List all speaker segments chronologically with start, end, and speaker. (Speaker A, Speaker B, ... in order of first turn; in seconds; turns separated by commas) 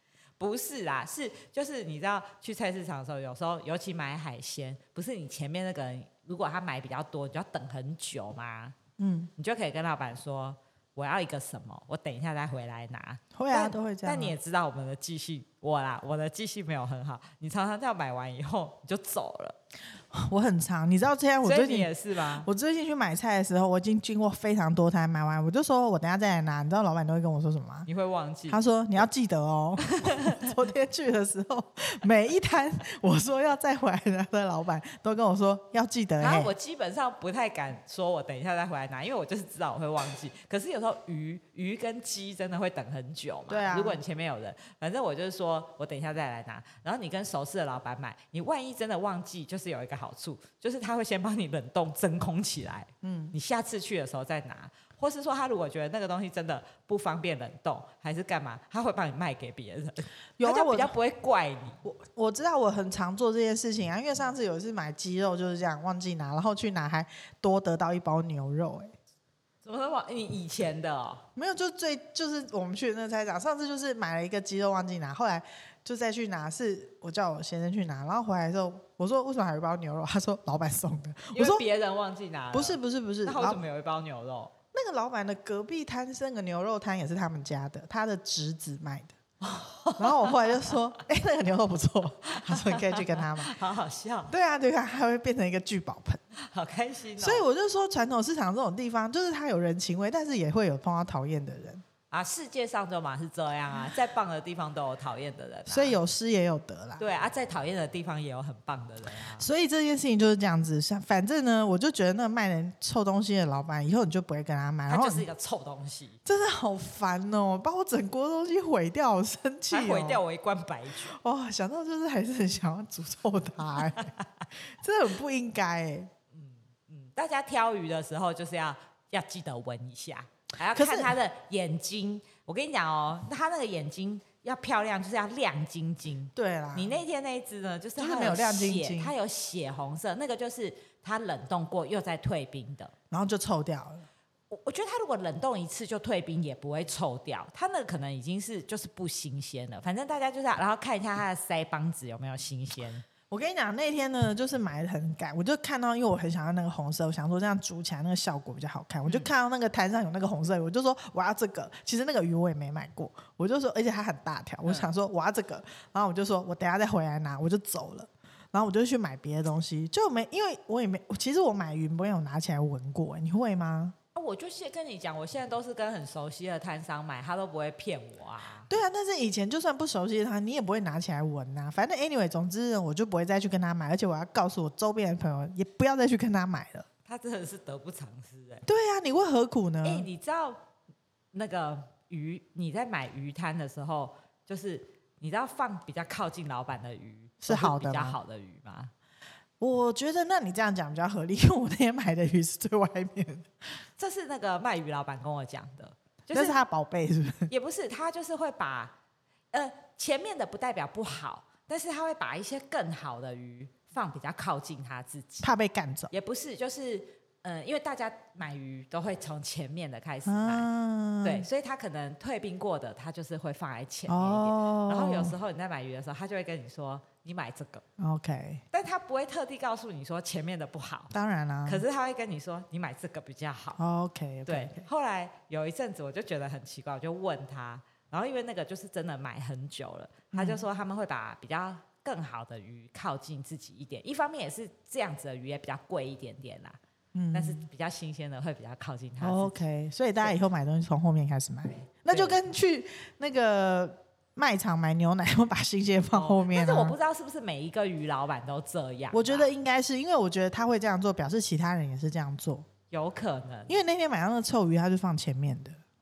Speaker A: 0.4-8.8, Speaker B: 9.0-9.3, Speaker A: 9.4-19.6, Speaker B: 13.3-14.4, Speaker B: 20.1-27.9, Speaker A: 21.4-22.5, Speaker A: 27.9-28.6, Speaker B: 28.5-36.5, Speaker A: 29.9-30.4, Speaker A: 36.2-61.8, Speaker B: 43.5-44.0, Speaker B: 53.0-53.4, Speaker B: 60.4-61.0, Speaker B: 61.8-68.9, Speaker A: 69.6-71.2, Speaker B: 71.4-81.6, Speaker A: 81.3-84.5, Speaker B: 82.5-83.6, Speaker B: 84.7-89.2, Speaker A: 89.4-90.6, Speaker B: 90.0-93.5, Speaker A: 92.3-94.3, Speaker B: 94.3-96.2, Speaker A: 96.4-97.4, Speaker B: 97.2-101.8, Speaker A: 102.1-106.0, Speaker B: 105.7-107.1, Speaker A: 107.0-109.5, Speaker B: 109.4-115.3, Speaker A: 114.9-116.2, Speaker B: 116.2-120.2, Speaker A: 119.7-121.2, Speaker B: 121.1-126.1, Speaker A: 123.8-124.2, Speaker A: 126.3-142.9, Speaker B: 130.7-131.2, Speaker B: 136.4-137.0, Speaker B: 138.0-139.2, Speaker B: 143.1-144.1, Speaker A: 144.5-153.0, Speaker B: 153.3-173.9, Speaker A: 174.2-178.7, Speaker B: 178.7-186.9, Speaker A: 187.1-188.7, Speaker B: 188.7-190.1, Speaker A: 189.8-190.6, Speaker A: 191.3-198.9, Speaker B: 197.4-198.2, Speaker B: 199.6-203.5, Speaker A: 204.0-206.6, Speaker B: 206.3-207.5, Speaker A: 207.5-208.9, Speaker A: 209.5-215.5, Speaker B: 215.4-216.1, Speaker A: 216.1-220.7, Speaker B: 220.2-221.5, Speaker A: 221.2-227.8, Speaker B: 224.1-225.4, Speaker B: 228.0-228.6, Speaker A: 228.7-231.1, Speaker B: 231.1-231.8, Speaker A: 231.7-233.8, Speaker B: 233.8-234.9, Speaker A: 234.5-246.8, Speaker B: 240.3-240.6, Speaker B: 247.2-247.7, Speaker A: 247.3-249.6, Speaker B: 249.2-257.0, Speaker A: 252.1-252.4, Speaker A: 256.1-259.5, Speaker B: 259.1-262.7, Speaker A: 262.9-263.8, Speaker B: 263.7-265.8